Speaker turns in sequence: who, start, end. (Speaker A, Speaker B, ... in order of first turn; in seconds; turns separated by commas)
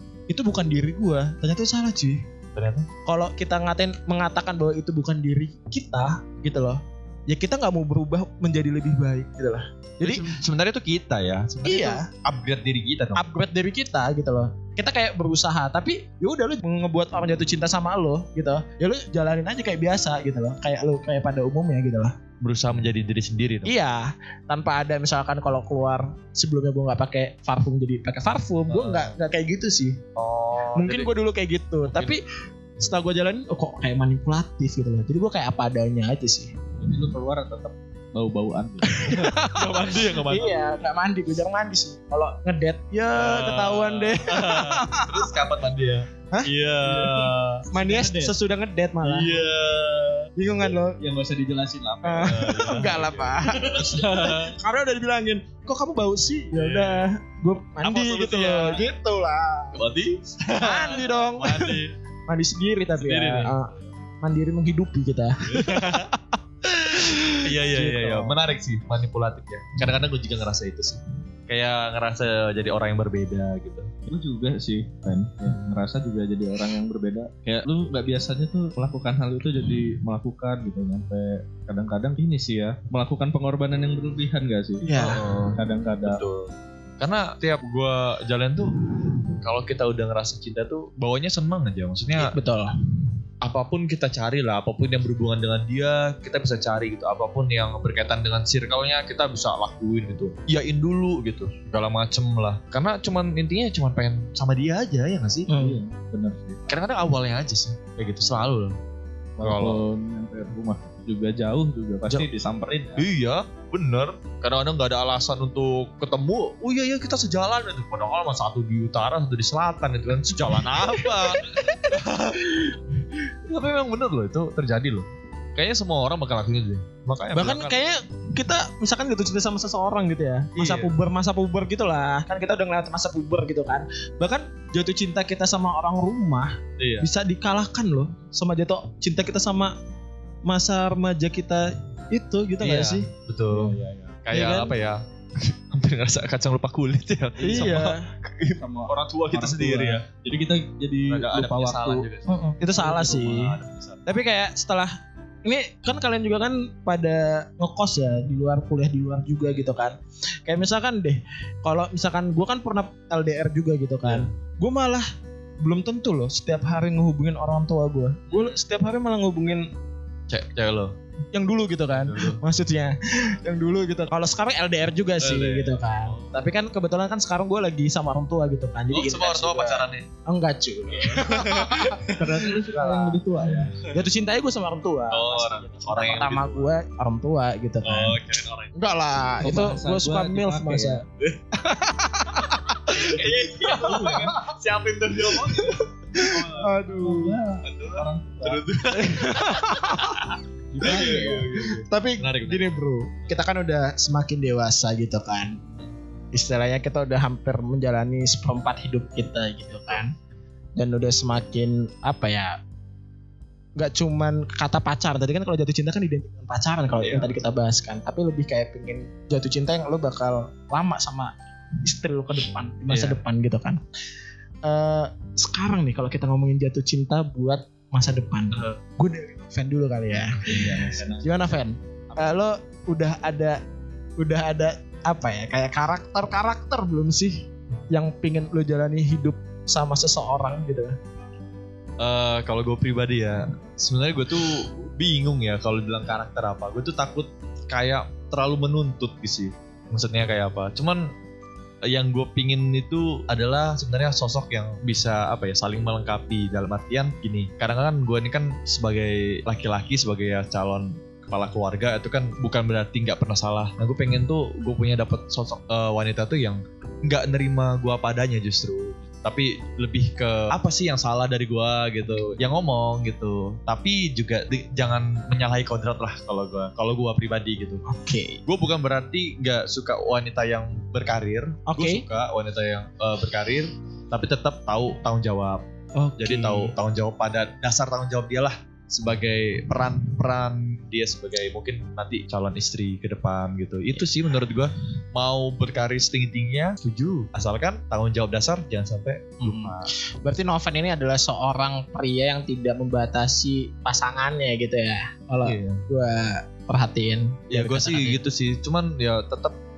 Speaker A: 0.3-2.2, Speaker B: 2.5-2.9, Speaker A: 3.1-10.3, Speaker B: 10.0-13.2, Speaker A: 11.6-12.1, Speaker A: 13.2-22.2, Speaker B: 22.4-23.7, Speaker A: 23.6-30.0, Speaker B: 28.7-29.1, Speaker B: 30.2-31.1, Speaker A: 30.8-32.2, Speaker B: 31.9-32.2, Speaker A: 32.8-36.5, Speaker C: 36.8-39.2, Speaker A: 38.9-45.3, Speaker B: 39.1-40.8, Speaker B: 43.1-47.6, Speaker C: 46.8-48.4, Speaker A: 47.7-49.5, Speaker B: 49.0-50.3, Speaker A: 50.4-51.0, Speaker C: 51.0-53.1, Speaker A: 52.0-59.8, Speaker B: 52.2-54.5, Speaker B: 56.5-57.1, Speaker B: 57.8-58.9, Speaker B: 59.7-61.9, Speaker A: 60.6-68.4, Speaker B: 63.0-63.6, Speaker B: 65.5-66.1, Speaker B: 67.3-73.9, Speaker C: 74.1-86.2, Speaker A: 84.8-85.2, Speaker B: 85.0-88.9, Speaker B: 89.4-92.3, Speaker A: 92.2-92.7, Speaker B: 93.4-105.5, Speaker A: 105.5-105.8, Speaker C: 105.6-106.6, Speaker B: 106.7-108.8, Speaker C: 109.4-113.0, Speaker B: 109.4-109.8, Speaker B: 113.0-127.8, Speaker A: 120.5-122.0, Speaker A: 127.3-139.8, Speaker B: 130.6-130.9, Speaker B: 136.8-137.1, Speaker A: 140.5-143.1, Speaker B: 142.6-150.1, Speaker C: 143.5-144.2, Speaker A: 144.3-144.7, Speaker C: 147.4-147.8, Speaker A: 147.4-148.1, Speaker C: 148.6-152.1, Speaker B: 151.1-154.1, Speaker A: 152.3-153.6, Speaker A: 154.1-154.9, Speaker A: 155.4-165.1, Speaker B: 164.1-164.3, Speaker A: 165.6-169.7, Speaker B: 168.3-168.6, Speaker B: 170.3-170.9, Speaker A: 171.3-183.2, Speaker B: 171.9-172.4, Speaker B: 175.2-176.5, Speaker B: 178.9-180.1, Speaker B: 180.9-182.2, Speaker C: 182.2-183.8, Speaker B: 183.6-183.9, Speaker A: 183.8-188.2, Speaker B: 185.1-186.7, Speaker B: 187.8-188.7, Speaker A: 188.8-191.0, Speaker C: 189.4-191.0, Speaker A: 191.6-194.4, Speaker B: 192.8-196.5, Speaker C: 193.8-194.3, Speaker A: 195.5-197.4, Speaker C: 196.2-198.6, Speaker B: 197.7-203.3, Speaker A: 198.9-200.2, Speaker C: 200.7-201.5, Speaker A: 200.8-205.6, Speaker A: 206.3-210.1, Speaker A: 210.8-212.6, Speaker A: 213.8-223.8, Speaker B: 217.0-217.3, Speaker B: 222.9-223.2, Speaker A: 224.7-233.6, Speaker C: 230.4-231.6, Speaker A: 234.2-241.0, Speaker B: 242.0-251.1, Speaker B: 251.8-277.8, Speaker A: 277.9-278.4, Speaker B: 278.5-285.6, Speaker A: 281.7-282.0, Speaker A: 286.0-286.7, Speaker B: 286.2-299.9, Speaker A: 299.4-308.2, Speaker B: 305.4-305.8, Speaker B: 307.5-309.6